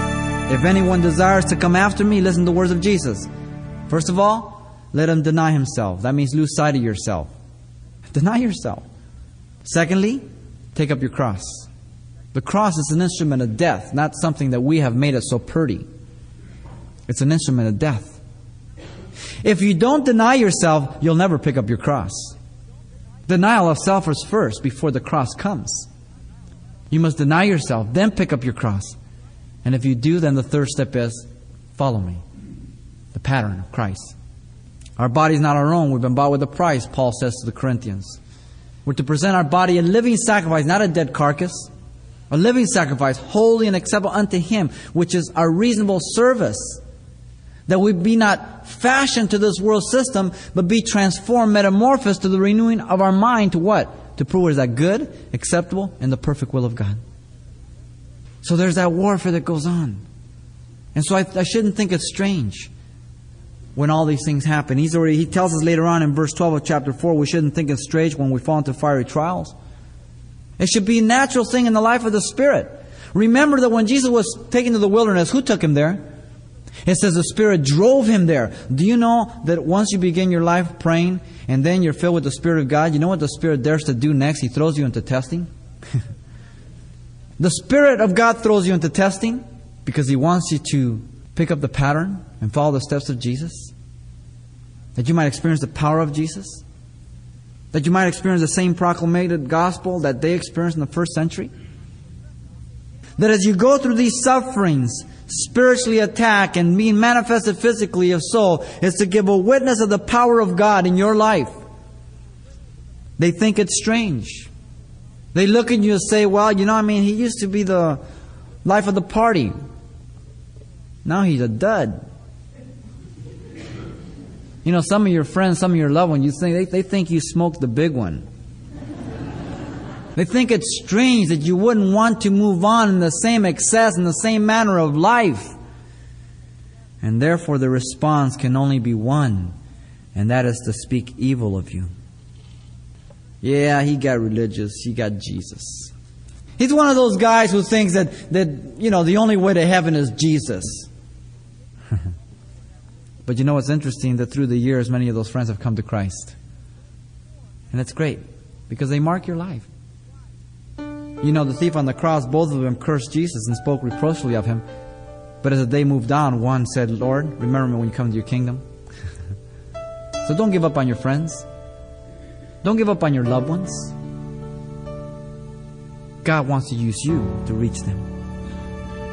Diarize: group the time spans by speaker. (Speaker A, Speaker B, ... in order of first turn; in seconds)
Speaker A: 0.5-3.3, 3.9-7.3, 8.1-8.8, 9.6-11.7, 12.3-15.9, 17.1-18.2, 19.4-22.4, 23.3-25.9, 26.9-29.0, 29.6-32.2, 33.1-34.1, 35.0-38.2, 38.9-41.7, 42.3-46.8, 47.7-57.0, 58.4-60.0, 60.9-62.7, 63.8-69.5, 70.6-76.0, 76.8-85.5, 87.4-93.7, 95.0-96.6, 97.7-101.5, 103.2-111.6, 113.2-114.5, 115.3-118.0, 118.6-119.5, 121.0-122.0, 124.6-128.3, 130.2-135.6, 137.0-139.6, 140.2-141.9, 143.4-145.9, 146.6-150.9, 153.3-156.3, 157.7-159.7, 161.2-164.6, 165.4-168.6, 170.2-171.5, 172.6-173.9, 176.2-178.1